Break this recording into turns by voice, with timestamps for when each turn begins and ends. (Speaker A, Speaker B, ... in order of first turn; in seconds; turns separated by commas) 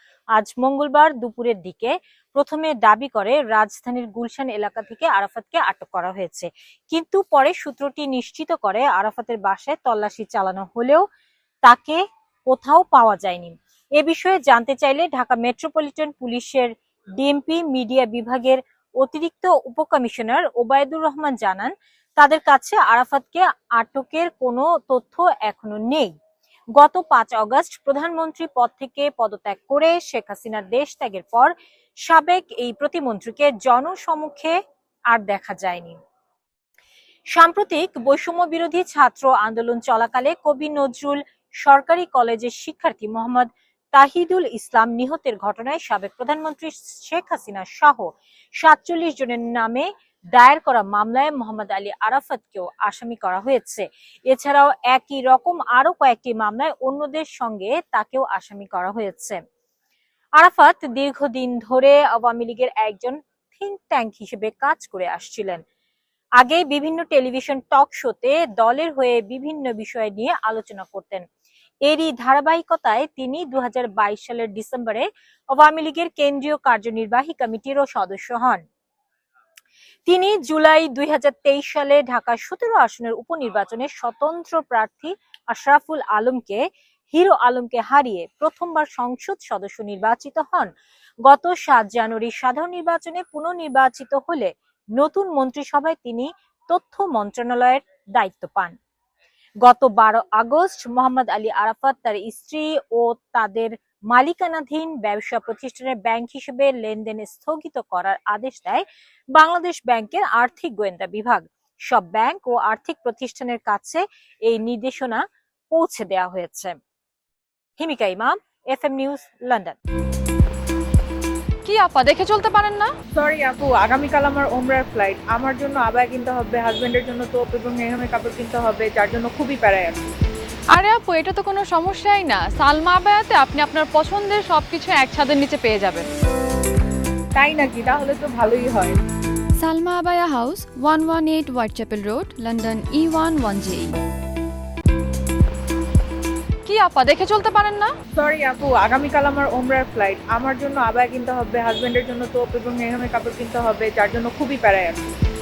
Speaker A: 0.3-11.0, Speaker A: 11.7-26.1, Speaker A: 26.8-31.5, Speaker A: 32.1-34.5, Speaker A: 35.1-36.0, Speaker A: 37.3-59.4, Speaker A: 60.4-65.6, Speaker A: 66.4-71.2, Speaker A: 71.8-78.6, Speaker A: 80.1-90.7, Speaker A: 91.2-98.7, Speaker A: 99.6-108.8, Speaker A: 109.3-116.8, Speaker A: 117.8-119.8, Speaker B: 121.6-122.9, Speaker C: 123.2-130.0, Speaker B: 130.7-136.1, Speaker C: 137.3-138.9, Speaker D: 139.6-143.9, Speaker B: 146.7-147.9, Speaker C: 148.1-155.0